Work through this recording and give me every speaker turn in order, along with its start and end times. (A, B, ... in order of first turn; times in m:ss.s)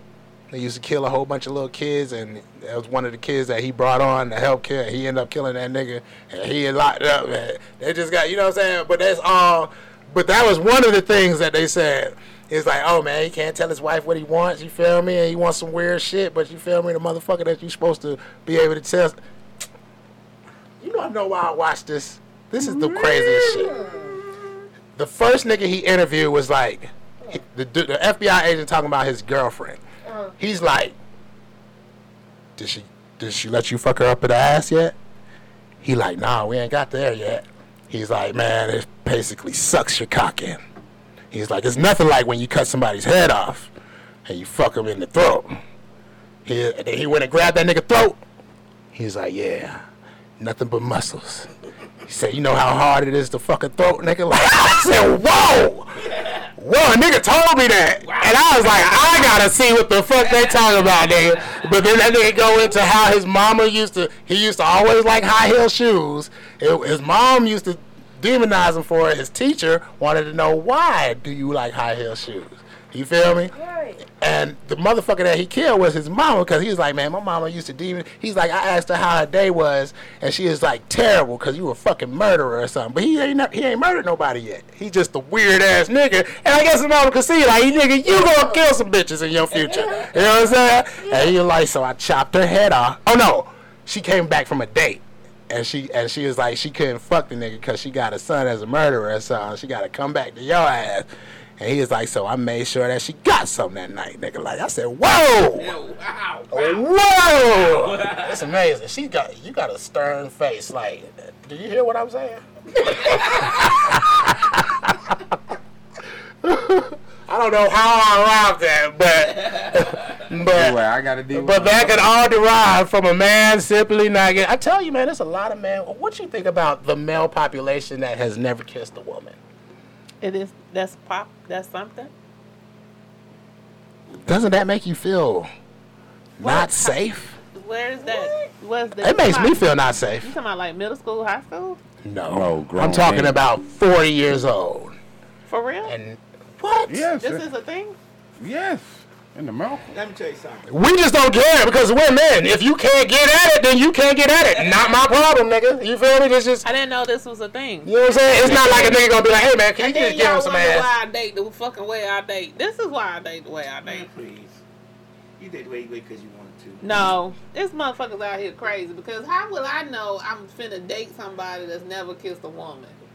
0:00.5-0:19.2 A
0:20.8-0:23.8 A
0:23.4-0:24.2 B
0:25.0-0:29.8 A
0:30.0-0:30.4 B
0:30.4-0:31.0 A
0:32.6-0:35.0 A
0:35.8-0:40.6 A
0:41.3-0:43.7 A
0:44.3-0:45.6 A
0:46.4-0:48.2 A
0:48.9-0:49.8 A
0:50.4-0:51.5 A
0:52.1-0:56.0 A
0:56.0-0:56.5 C
0:56.6-1:13.5 A
0:58.0-0:59.0 C
1:13.5-1:14.0 B
1:14.1-1:41.1 A
1:28.1-1:28.6 B
1:29.7-1:30.2 B
1:31.0-1:31.3 B
1:41.6-1:45.8 A
1:45.6-1:46.8 C
1:46.5-1:55.4 A
1:47.6-1:48.4 C
1:52.9-1:53.6 C
1:56.4-2:00.8 A
2:00.4-2:02.1 D
2:01.3-2:09.4 A
2:10.2-2:12.1 E
2:14.3-2:15.5 A
2:16.4-2:17.0 E
2:16.4-2:17.4 A
2:17.5-2:19.6 E
2:18.0-2:18.5 B
2:19.0-2:20.3 A
2:20.2-2:21.8 E
2:22.0-2:25.0 A
2:22.3-2:23.4 D
2:25.5-2:25.9 E
2:25.9-2:27.0 A
2:26.9-2:27.4 D
2:27.2-2:28.0 E
2:28.4-2:29.9 D
2:29.9-2:30.7 C
2:30.7-2:36.7 A
2:36.6-2:39.0 E
2:37.8-2:40.9 A
2:39.8-2:44.1 E
2:43.8-2:44.6 C
2:45.4-2:47.0 C
2:46.8-2:53.0 E